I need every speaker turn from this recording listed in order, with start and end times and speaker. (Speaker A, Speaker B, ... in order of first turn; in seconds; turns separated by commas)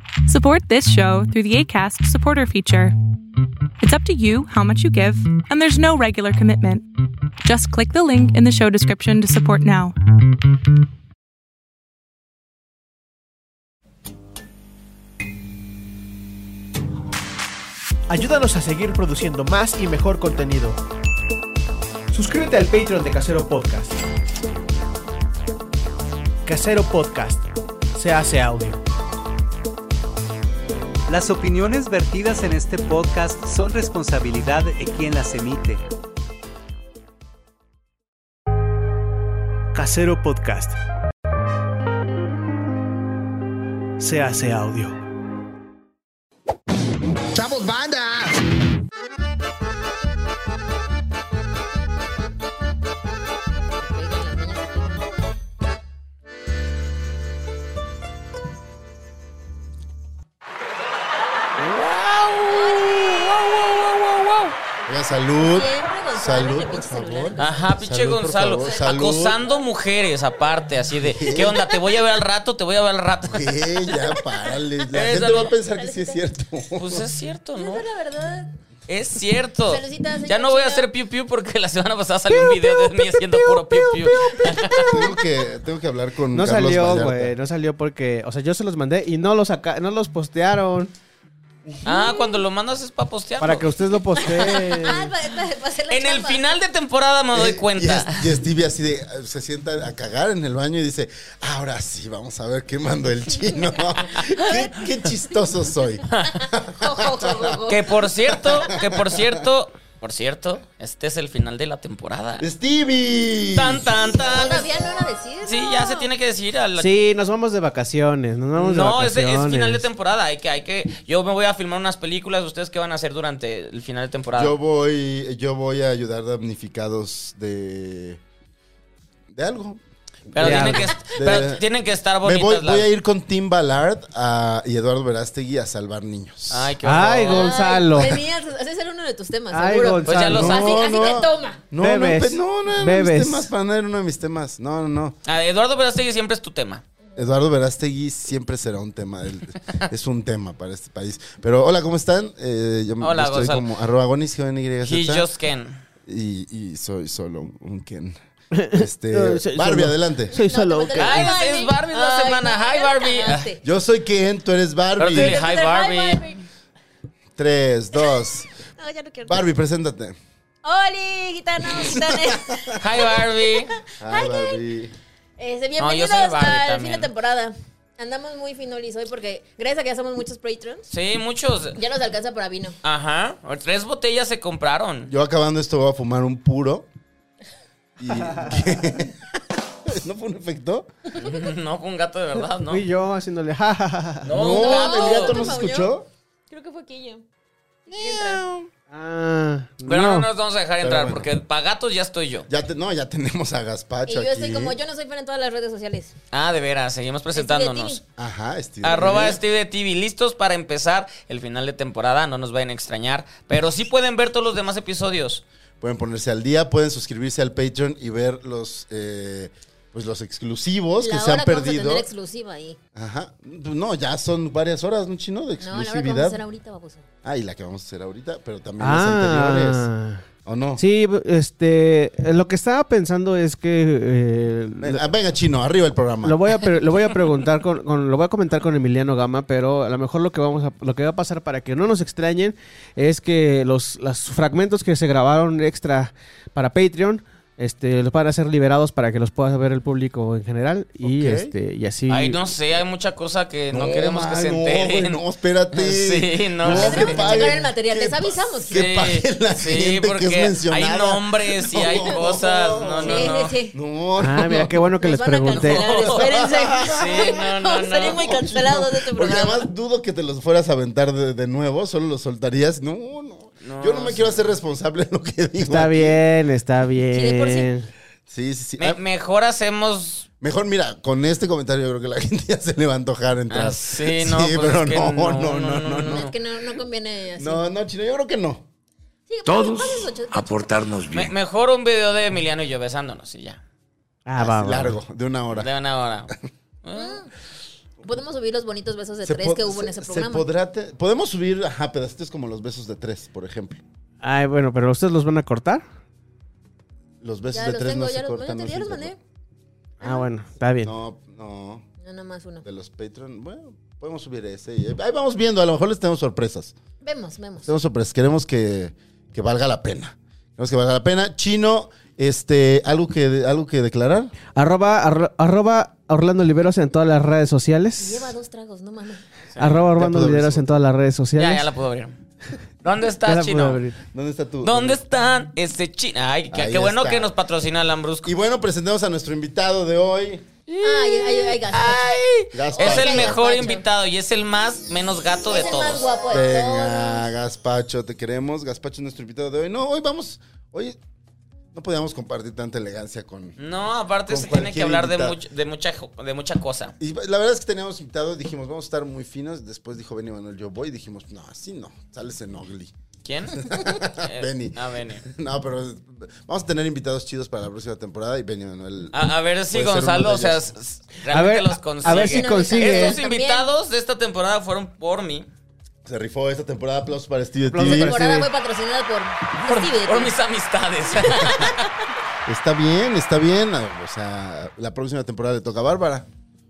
Speaker A: 0.3-3.0, Speaker A: 3.8-6.8, Speaker A: 7.4-9.9, Speaker B: 18.1-20.8, Speaker B: 22.1-24.0, Speaker B: 26.4-28.8, Speaker C: 31.1-35.9, Speaker B: 39.7-40.8, Speaker B: 44.0-45.0, Speaker D: 47.4-48.4, Speaker E: 53.8-55.1, Speaker F: 61.6-64.5, Speaker E: 62.5-63.0, Speaker G: 64.9-69.4, Speaker E: 65.4-67.6, Speaker F: 67.4-73.9, Speaker E: 68.6-68.9, Speaker G: 71.0-71.6, Speaker G: 73.3-77.1, Speaker F: 74.9-75.5, Speaker E: 75.7-76.2, Speaker F: 76.8-77.9, Speaker E: 77.6-78.5, Speaker F: 78.9-85.0, Speaker E: 79.7-80.9, Speaker B: 82.6-85.0, Speaker E: 84.1-84.9, Speaker G: 84.9-87.3, Speaker B: 86.3-90.9, Speaker F: 91.8-94.9, Speaker B: 93.4-95.1, Speaker E: 94.4-96.5, Speaker F: 95.9-98.4, Speaker G: 97.3-107.6, Speaker F: 104.0-104.2, Speaker E: 104.1-104.8, Speaker F: 106.1-106.4, Speaker E: 106.2-107.9, Speaker F: 107.7-112.5, Speaker G: 108.3-109.4, Speaker G: 112.4-114.1, Speaker F: 113.5-114.7, Speaker E: 114.2-116.1, Speaker F: 115.4-116.9, Speaker B: 116.8-119.8, Speaker F: 118.5-124.6, Speaker G: 124.3-128.2, Speaker G: 129.3-131.6, Speaker F: 130.3-132.9, Speaker B: 130.4-130.9, Speaker G: 132.2-136.8, Speaker F: 136.5-138.1, Speaker B: 136.8-138.2, Speaker E: 137.3-141.6, Speaker B: 139.5-140.6, Speaker F: 140.0-140.7, Speaker G: 140.3-145.2, Speaker B: 141.8-143.5, Speaker F: 145.3-146.8, Speaker G: 147.2-155.3, Speaker F: 153.0-153.7, Speaker F: 154.8-155.8, Speaker G: 156.1-158.2, Speaker B: 158.6-161.3, Speaker G: 158.7-160.4, Speaker E: 160.3-163.6, Speaker F: 161.0-163.5, Speaker G: 163.6-165.4, Speaker F: 165.0-166.2, Speaker E: 165.1-166.4, Speaker G: 167.4-168.5, Speaker E: 168.8-169.5, Speaker G: 169.3-170.2, Speaker E: 170.6-174.6, Speaker F: 172.8-173.7, Speaker G: 174.0-174.9, Speaker E: 175.4-180.9, Speaker F: 175.8-177.1, Speaker F: 180.9-181.8, Speaker E: 181.8-182.8, Speaker F: 182.8-185.1, Speaker G: 185.1-186.9, Speaker G: 188.0-190.9, Speaker F: 191.2-192.9, Speaker B: 192.7-194.3, Speaker F: 194.2-195.5, Speaker G: 194.3-196.1, Speaker E: 194.4-195.9, Speaker E: 196.5-197.2, Speaker E: 197.9-198.4, Speaker G: 197.9-198.7, Speaker B: 198.9-200.3, Speaker F: 199.9-202.5, Speaker G: 200.8-201.3, Speaker G: 202.5-204.8, Speaker E: 204.1-206.1, Speaker F: 206.3-208.0, Speaker E: 207.3-208.0, Speaker G: 208.2-209.4, Speaker F: 208.8-215.4, Speaker G: 215.8-222.1, Speaker E: 221.0-222.8, Speaker G: 222.9-226.4, Speaker E: 225.6-227.1, Speaker G: 227.2-229.9, Speaker B: 228.8-230.2, Speaker G: 230.4-230.8, Speaker B: 230.8-235.0, Speaker G: 234.8-236.5, Speaker B: 236.2-252.4, Speaker G: 251.0-251.5, Speaker F: 252.1-255.2, Speaker G: 253.7-264.8, Speaker F: 255.8-257.5, Speaker E: 256.7-258.8, Speaker F: 258.7-263.6, Speaker E: 261.8-262.2, Speaker E: 263.0-263.8, Speaker B: 264.2-265.9, Speaker E: 265.0-269.7, Speaker F: 265.5-266.3, Speaker G: 265.9-276.2, Speaker F: 266.9-268.2, Speaker F: 273.6-274.5, Speaker B: 275.6-277.9, Speaker E: 277.1-277.7, Speaker G: 278.3-279.0, Speaker F: 278.8-280.3, Speaker G: 280.4-286.3, Speaker F: 283.5-286.4, Speaker E: 286.0-287.6, Speaker G: 287.4-288.6, Speaker E: 289.3-290.9, Speaker D: 289.5-291.3, Speaker F: 291.0-293.6, Speaker B: 294.3-295.0, Speaker G: 294.4-295.7, Speaker F: 295.5-296.3, Speaker F: 296.8-297.2, Speaker E: 296.9-297.3, Speaker E: 298.0-300.5, Speaker G: 299.2-303.8, Speaker B: 304.2-305.8, Speaker G: 307.2-309.1, Speaker E: 307.5-309.2, Speaker E: 310.0-310.3, Speaker B: 310.0-310.9, Speaker G: 310.8-311.9, Speaker E: 312.0-312.6, Speaker G: 312.6-316.7, Speaker E: 317.0-317.7, Speaker G: 317.7-324.3, Speaker B: 324.6-328.3, Speaker E: 328.0-329.2, Speaker F: 329.5-329.9, Speaker B: 329.6-331.7, Speaker G: 329.9-330.7, Speaker F: 331.4-332.1, Speaker F: 332.8-333.8, Speaker B: 333.2-334.0, Speaker G: 334.1-335.0, Speaker F: 334.6-338.3, Speaker G: 336.5-337.3, Speaker G: 338.2-340.5, Speaker F: 340.7-346.1, Speaker E: 340.8-342.0, Speaker G: 342.5-343.4, Speaker E: 342.7-343.8, Speaker E: 345.5-347.2, Speaker G: 346.3-351.0, Speaker G: 351.7-353.6, Speaker F: 353.6-356.9, Speaker G: 354.3-355.4, Speaker G: 357.0-362.9, Speaker F: 363.2-365.3, Speaker G: 363.5-370.7, Speaker F: 369.1-375.5, Speaker B: 371.3-373.2, Speaker E: 372.0-373.7, Speaker G: 376.1-378.2, Speaker B: 377.7-378.5, Speaker E: 377.8-380.3, Speaker F: 379.6-381.9, Speaker E: 381.2-381.9, Speaker G: 382.5-386.3